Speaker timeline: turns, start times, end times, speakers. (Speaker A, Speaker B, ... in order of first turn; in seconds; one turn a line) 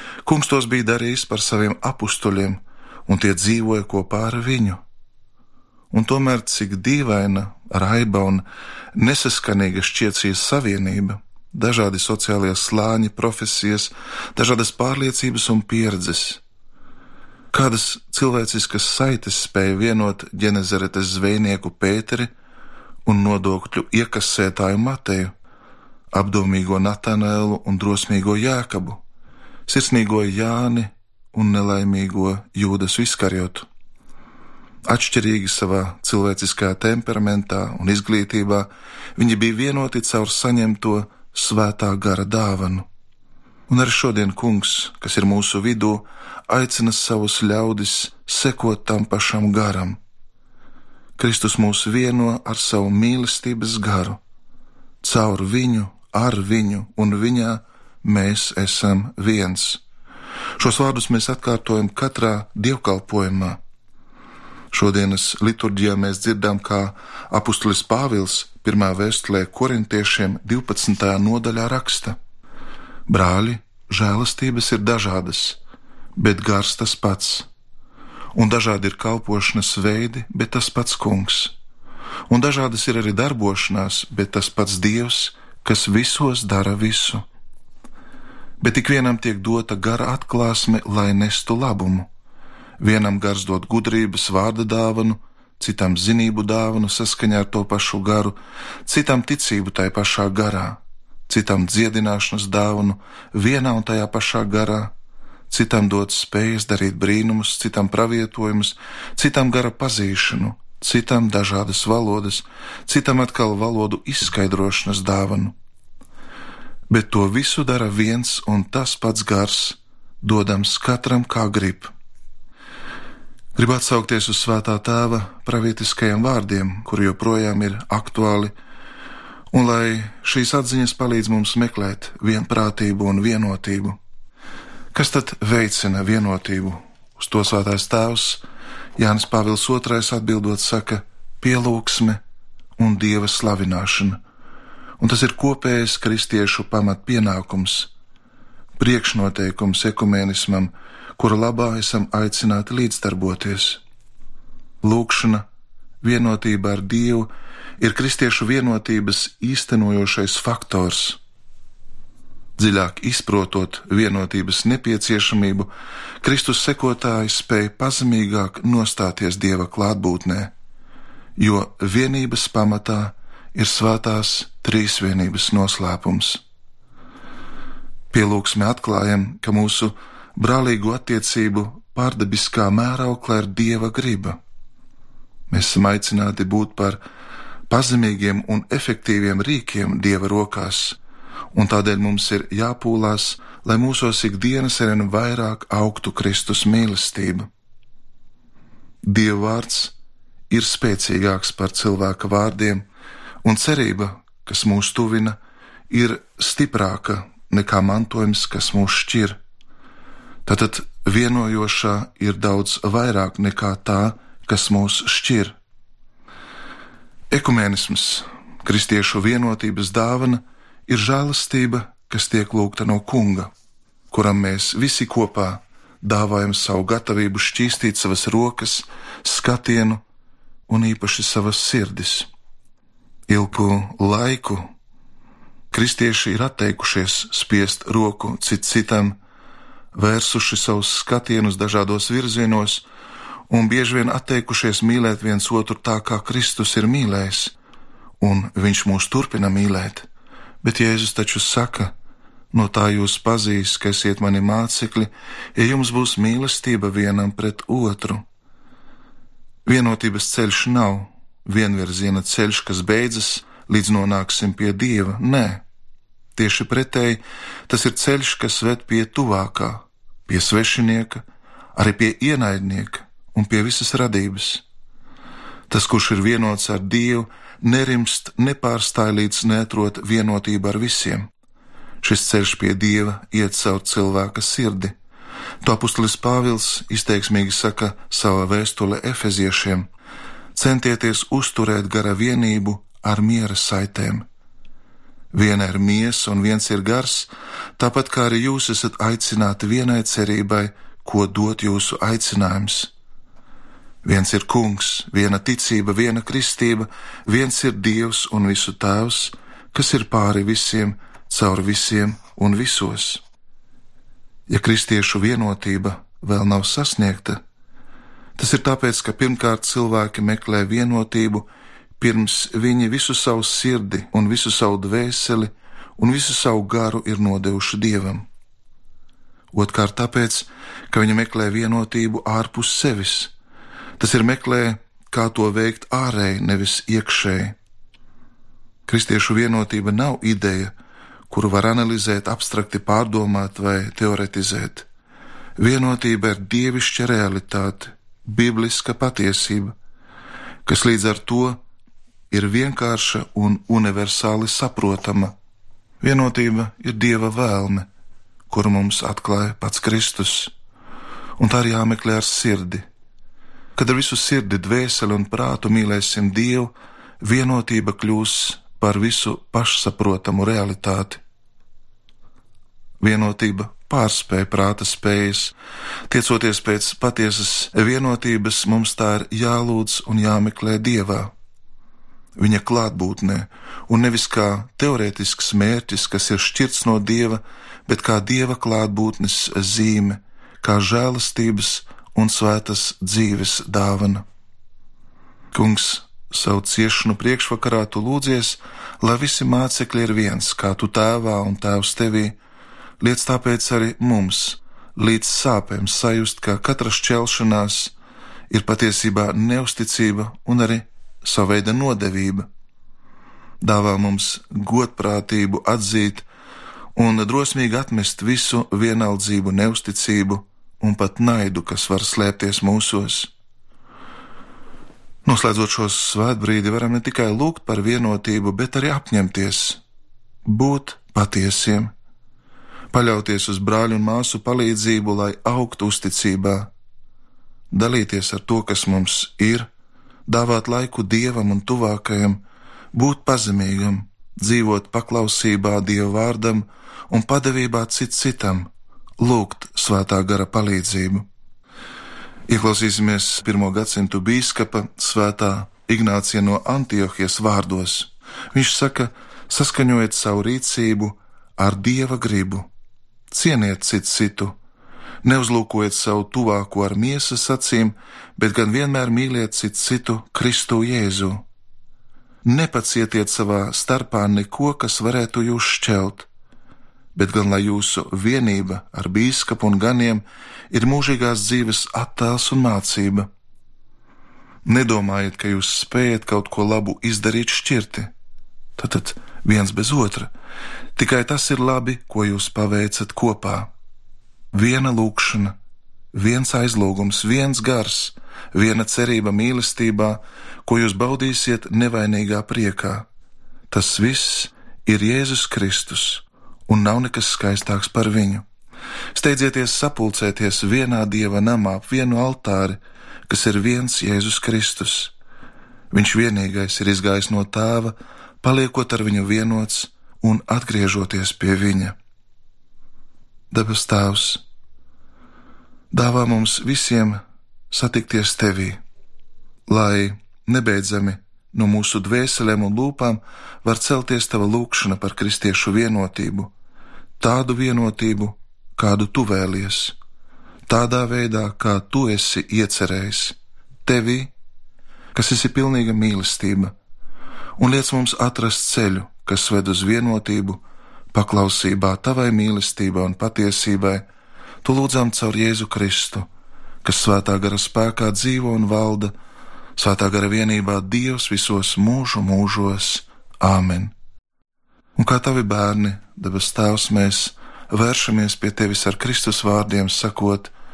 Speaker A: 0.2-4.8
Speaker A: 5.9-16.4
Speaker A: 17.5-22.3
Speaker A: 23.0-25.3
Speaker A: 26.1-29.0
Speaker A: 29.7-33.7
Speaker A: 34.9-42.8
Speaker A: 43.7-50.0
Speaker A: 51.2-54.2
Speaker A: 55.0-59.8
Speaker A: 60.6-63.6
Speaker A: 64.7-72.2
Speaker A: 73.1-75.6
Speaker A: 76.2-77.5
Speaker A: 78.3-81.5
Speaker A: 82.3-87.2
Speaker A: 88.6-92.1
Speaker A: 92.8-104.9
Speaker A: 105.5-115.5
Speaker A: 116.9-121.9
Speaker A: 123.5-128.5
Speaker A: 129.5-134.0
Speaker A: 134.9-138.4
Speaker A: 139.0-142.2
Speaker A: 142.8-144.2
Speaker A: 145.0-147.9
Speaker A: 148.8-153.8
Speaker A: 154.8-155.4
Speaker A: 156.0-157.3
Speaker A: 157.8-161.2
Speaker A: 162.6-165.7
Speaker A: 166.2-170.5
Speaker A: 171.4-176.4
Speaker A: 178.1-184.4
Speaker A: 185.5-187.0
Speaker A: 187.7-191.0
Speaker A: 191.5-197.5
Speaker A: 199.0-199.9
Speaker A: 200.5-202.8
Speaker A: 203.4-205.4
Speaker A: 205.9-209.4
Speaker A: 210.4-215.6
Speaker A: 217.3-223.5
Speaker A: 224.1-230.0
Speaker A: 230.7-232.3
Speaker A: 233.3-234.7
Speaker A: 235.7-239.2
Speaker A: 239.9-242.8
Speaker A: 243.5-247.5
Speaker A: 248.2-250.1
Speaker A: 250.6-251.9
Speaker A: 252.5-258.2
Speaker A: 259.6-265.6
Speaker A: 266.3-271.2
Speaker A: 271.7-274.6
Speaker A: 275.7-281.3
Speaker A: 282.0-284.9
Speaker A: 285.6-289.9
Speaker A: 290.5-294.2
Speaker A: 295.3-302.9
Speaker A: 304.0-313.2
Speaker A: 314.5-317.4
Speaker A: 318.4-321.5
Speaker A: 322.0-328.2
Speaker A: 329.5-333.3
Speaker A: 334.0-337.6
Speaker A: 338.9-340.7
Speaker A: 341.3-344.9
Speaker A: 345.6-349.7
Speaker A: 350.6-351.6
Speaker A: 352.3-355.3
Speaker A: 356.0-357.9
Speaker A: 358.5-360.5
Speaker A: 361.4-362.8
Speaker A: 363.8-371.2
Speaker A: 373.0-375.5
Speaker A: 376.1-381.3
Speaker A: 382.4-394.2
Speaker A: 395.5-402.4
Speaker A: 403.0-407.9
Speaker A: 408.5-412.4
Speaker A: 413.6-416.2
Speaker A: 416.9-423.3
Speaker A: 425.2-429.8
Speaker A: 430.4-431.9
Speaker A: 432.9-436.7
Speaker A: 437.7-439.7
Speaker A: 440.3-442.4
Speaker A: 442.9-451.3
Speaker A: 452.5-462.7
Speaker A: 463.3-464.5
Speaker A: 465.2-471.4
Speaker A: 472.4-476.3
Speaker A: 477.1-483.3
Speaker A: 484.6-488.1
Speaker A: 488.8-490.3
Speaker A: 490.9-493.7
Speaker A: 494.5-495.5
Speaker A: 496.1-503.1
Speaker A: 503.7-508.4
Speaker A: 509.1-515.1
Speaker A: 515.9-521.9
Speaker A: 523.5-524.4
Speaker A: 525.9-528.8
Speaker A: 529.7-536.5
Speaker A: 537.2-540.0
Speaker A: 540.7-544.3
Speaker A: 545.1-546.7
Speaker A: 547.6-550.6
Speaker A: 551.1-554.0
Speaker A: 554.6-556.3
Speaker A: 556.8-559.1
Speaker A: 559.8-563.9
Speaker A: 565.0-570.5